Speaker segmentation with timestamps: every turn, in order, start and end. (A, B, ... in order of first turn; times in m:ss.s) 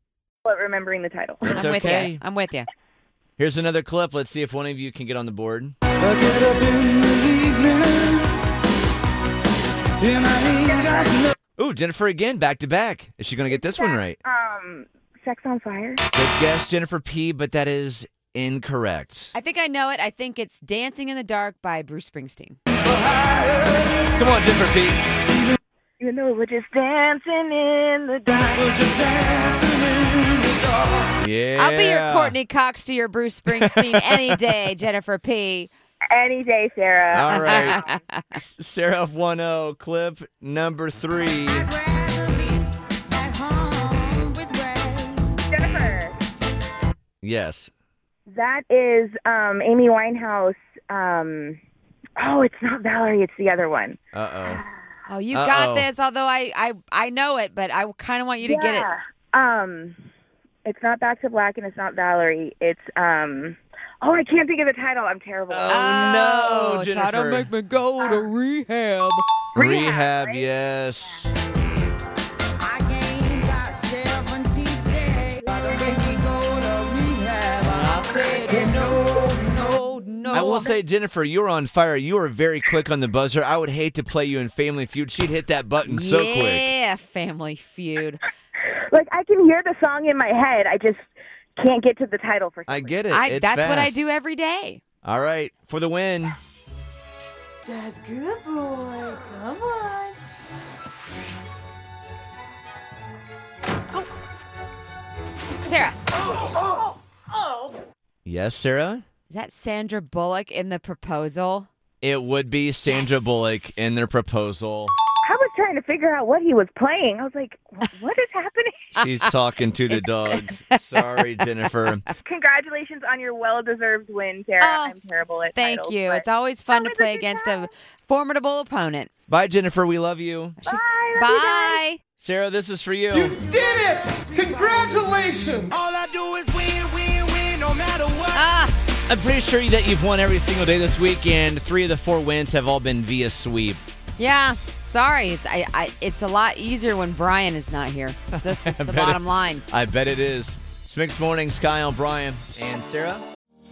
0:00.4-0:01.7 A
0:01.4-0:02.2 B
0:01.5-0:02.7 C
0:03.4-0:05.7 B
0:06.0-0:08.2 D
0:10.0-0:10.8 D
0:10.3-0:11.3 A
0:11.6-0:14.2 B
0:13.5-0:16.0 A
0:16.1-0:19.3 B
0:19.3-0:22.6 C
0:22.8-0:23.9 D
0:24.2-0:25.1 B
0:26.0-0:28.9 A
0:28.6-0:31.1 D
0:31.2-0:32.4 B
0:31.6-0:35.7 C
0:33.5-0:34.4 B
0:36.1-0:37.9 A
0:37.1-0:41.7 B
0:37.3-0:38.2 C
0:41.6-0:45.3 E
0:45.5-0:46.2 A
0:47.2-0:47.7 B
0:48.3-0:51.6 A
0:52.2-0:54.6 A
0:54.1-0:54.6 B
0:55.1-0:58.9 C
0:55.3-0:55.9 B
0:58.4-1:00.0 A
1:00.6-1:06.1 A
1:05.5-1:07.5 B
1:05.7-1:09.2 C
1:09.5-1:10.5 A
1:09.6-1:11.3 B
1:12.6-1:20.4 E
1:17.6-1:20.7 C
1:20.3-1:26.7 B
1:25.8-1:28.2 C
1:28.9-1:33.0 A
1:32.7-1:34.0 B
1:33.1-1:34.8 C
1:35.0-1:36.4 B
1:37.7-1:40.1 E
1:37.8-1:39.9 C
1:45.6-1:46.0 C
1:48.2-1:49.0 B
1:49.3-1:51.7 C
1:52.0-1:54.9 B
1:55.2-1:59.0 A
1:59.0-2:02.0 B
1:59.9-2:01.2 C
2:02.2-2:07.7 A
2:04.6-2:05.0 C
2:05.5-2:09.1 C
2:09.3-2:10.6 B
2:10.6-2:12.0 C
2:10.7-2:11.8 A
2:12.2-2:13.5 B
2:13.3-2:15.7 E
2:15.7-2:18.4 B
2:16.4-2:17.3 D
2:18.3-2:18.8 C
2:19.1-2:23.8 B
2:24.2-2:29.6 C
2:28.3-2:33.2 B